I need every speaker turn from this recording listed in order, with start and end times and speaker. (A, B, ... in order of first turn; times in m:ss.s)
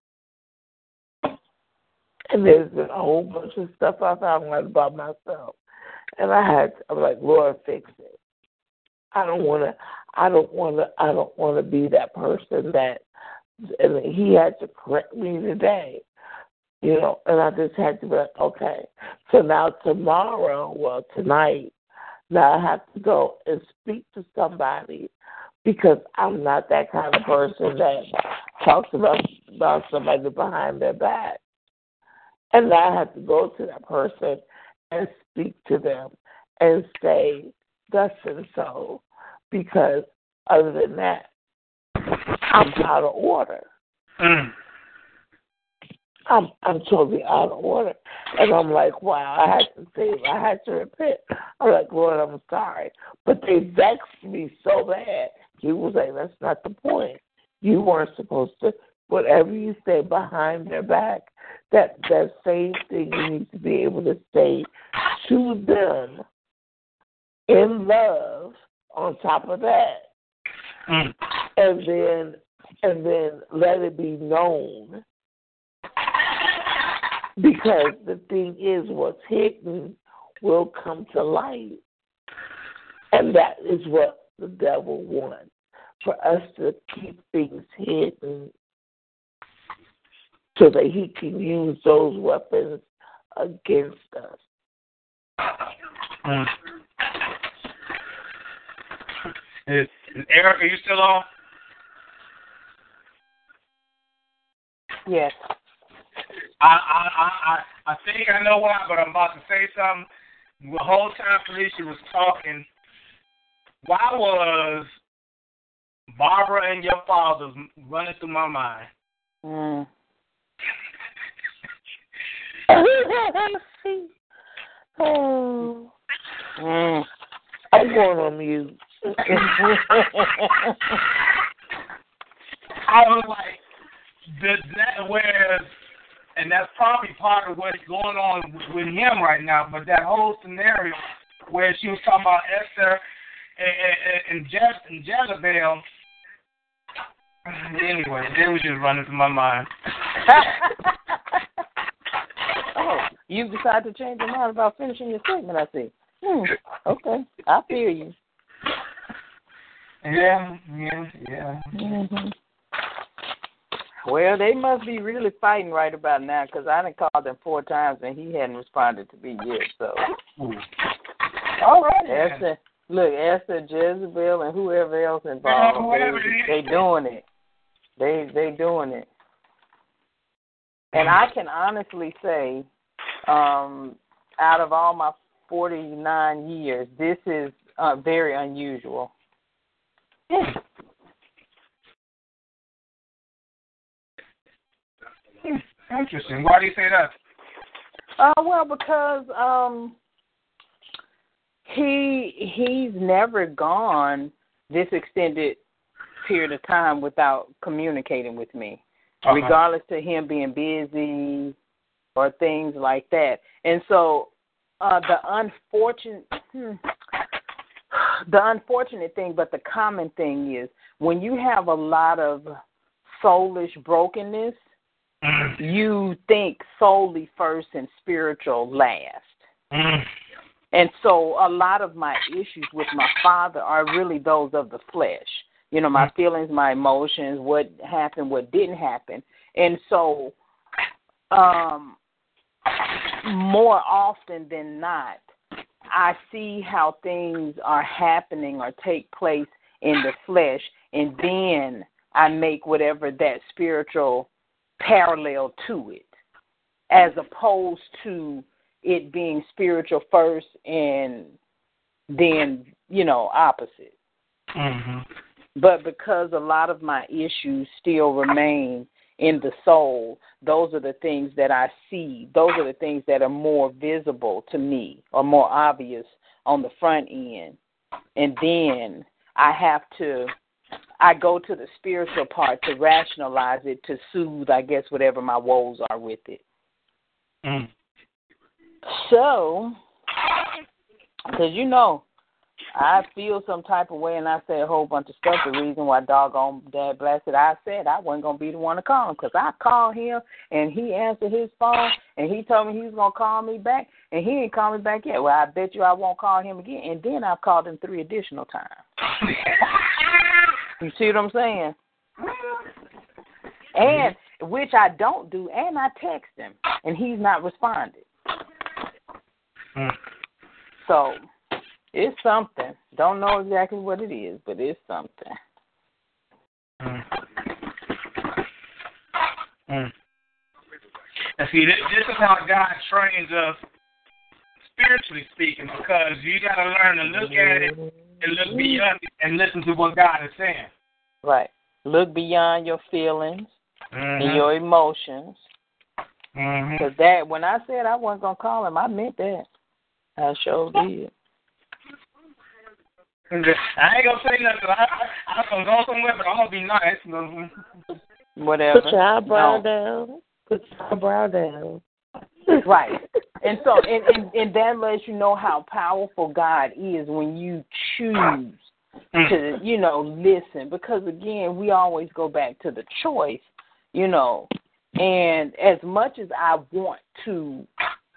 0:02.3-0:05.6 A
0:06.2-0:08.2 A
0:09.1-0:13.0 A
0:13.7-0:16.0 A
0:16.8-0:21.7 A
0:22.3-0:25.1 A
0:25.6-0:31.4 A
0:32.5-0:41.3 A
0:42.4-0:43.6 A
0:44.2-0:44.5 B
0:46.3-1:06.2 A
1:07.5-1:10.1 A
1:10.9-1:11.1 B
1:11.6-1:15.0 A
1:17.4-1:21.8 A
1:23.1-1:25.5 A
1:26.0-1:28.5 A
1:30.5-1:32.8 A
1:33.3-1:34.4 A
1:36.2-1:36.5 B
1:39.7-1:41.3 B
1:45.0-1:45.4 C
1:46.6-1:50.1 B
1:50.6-1:52.6 B
1:53.8-1:54.9 B
1:56.2-1:58.9 B
1:59.4-1:59.9 C
2:02.7-2:04.1 A
2:05.0-2:05.9 A
2:06.6-2:07.0 C
2:07.7-2:09.9 A
2:09.3-2:10.7 C
2:12.8-2:13.6 B
2:14.3-2:15.7 B
2:16.4-2:23.0 B
2:23.6-2:25.8 B
2:27.4-2:29.7 B
2:30.3-2:30.7 C
2:32.8-2:38.1 C
2:40.0-2:41.7 B
2:41.7-2:42.3 C
2:44.0-2:50.0 C
2:50.4-2:50.6 B
2:51.6-2:52.4 B
2:52.0-2:57.2 C
2:55.4-2:56.8 B
2:58.0-2:59.1 C
3:00.9-3:02.6 C
3:03.2-3:09.1 C
3:15.4-3:17.1 B
3:18.2-3:20.0 C
3:21.6-3:25.6 C
3:26.2-3:31.5 C
3:29.2-3:29.5 B
3:32.2-3:34.3 C
3:34.8-3:36.8 C
3:37.9-3:42.5 C
3:43.1-3:44.6 C
3:45.2-3:45.6 B
3:45.6-3:49.3 C
3:49.7-3:50.1 B
3:50.7-4:00.3 C
4:01.3-4:02.0 C
4:03.2-4:05.2 C
4:05.9-4:14.3 C
4:14.8-4:16.1 C
4:16.9-4:21.3 C
4:22.1-4:23.9 C
4:24.5-4:25.0 B
4:25.6-4:37.6 C
4:38.2-4:40.3 C
4:41.0-4:46.4 C
4:47.4-4:47.7 B
4:48.9-4:49.8 C
4:51.3-4:52.0 C
4:52.7-5:08.8 C
5:09.2-5:09.6 B
5:10.8-5:11.7 C
5:13.8-5:18.0 C
5:13.8-5:14.1 B
5:20.8-5:21.2 C
5:21.9-5:25.3 C
5:31.4-5:33.6 B
5:34.8-5:40.7 B
5:37.1-5:38.8 C
5:41.2-5:43.5 C
5:43.9-5:44.4 B
5:44.2-5:45.4 C
5:46.3-5:46.9 B
5:46.8-5:49.4 C
5:50.2-5:51.1 C
5:53.3-5:57.5 B
5:58.4-5:59.6 C
5:58.7-6:01.8 A
6:02.6-6:08.6 C
6:09.2-6:17.7 C